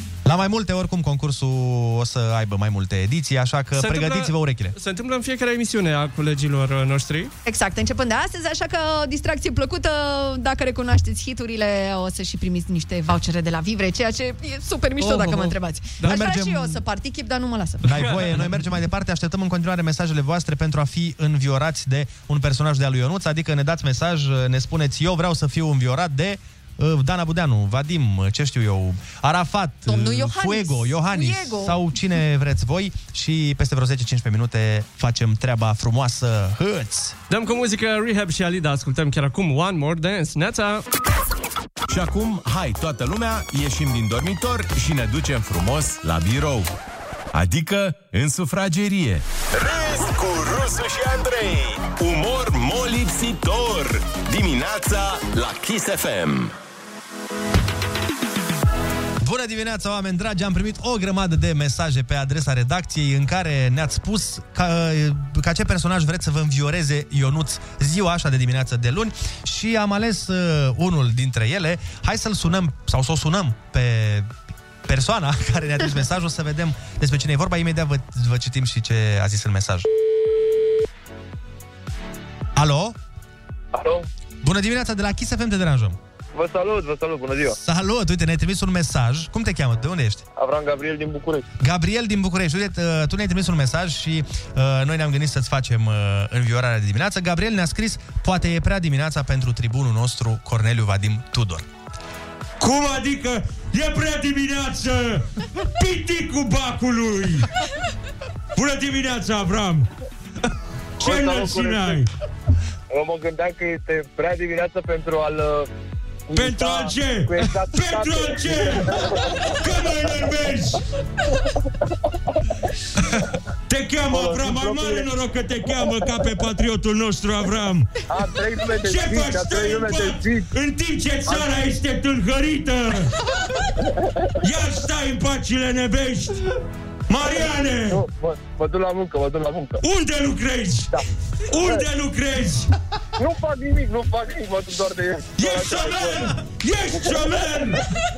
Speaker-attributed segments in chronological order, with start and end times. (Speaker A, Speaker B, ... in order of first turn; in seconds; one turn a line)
Speaker A: 0.2-4.8
Speaker B: 3.8-7.3
Speaker C: 7.5-18.0
Speaker B: 15.0-16.2
Speaker A: 16.0-16.8
Speaker A: 17.9-37.2
Speaker B: 17.9-18.3
Speaker C: 29.9-31.8
Speaker B: 37.3-40.8
Speaker D: 41.9-46.7
Speaker D: 47.3-56.5
Speaker A: 59.2-74.3
Speaker A: 74.8-79.9
Speaker A: 82.6-83.0
Speaker E: 83.7-84.1
Speaker A: 84.4-86.0
Speaker E: 86.3-87.6
Speaker A: 87.6-90.2
Speaker E: 90.4-91.5
Speaker A: 91.6-101.7
Speaker F: 102.6-105.3
Speaker F: 105.8-107.5
Speaker F: 108.5-109.9
Speaker E: 111.0-112.0
Speaker F: 111.0-112.1
Speaker E: 112.9-115.7
Speaker E: 116.3-119.5
Speaker F: 116.3-120.8
Speaker F: 123.7-128.0
Speaker E: 124.1-125.1
Speaker E: 128.1-130.5
Speaker F: 128.8-133.1
Speaker F: 134.4-136.4
Speaker F: 137.1-138.0
Speaker E: 137.5-139.8
Speaker F: 139.8-141.0
Speaker F: 141.5-142.7
Speaker E: 143.2-146.3
Speaker F: 145.4-147.8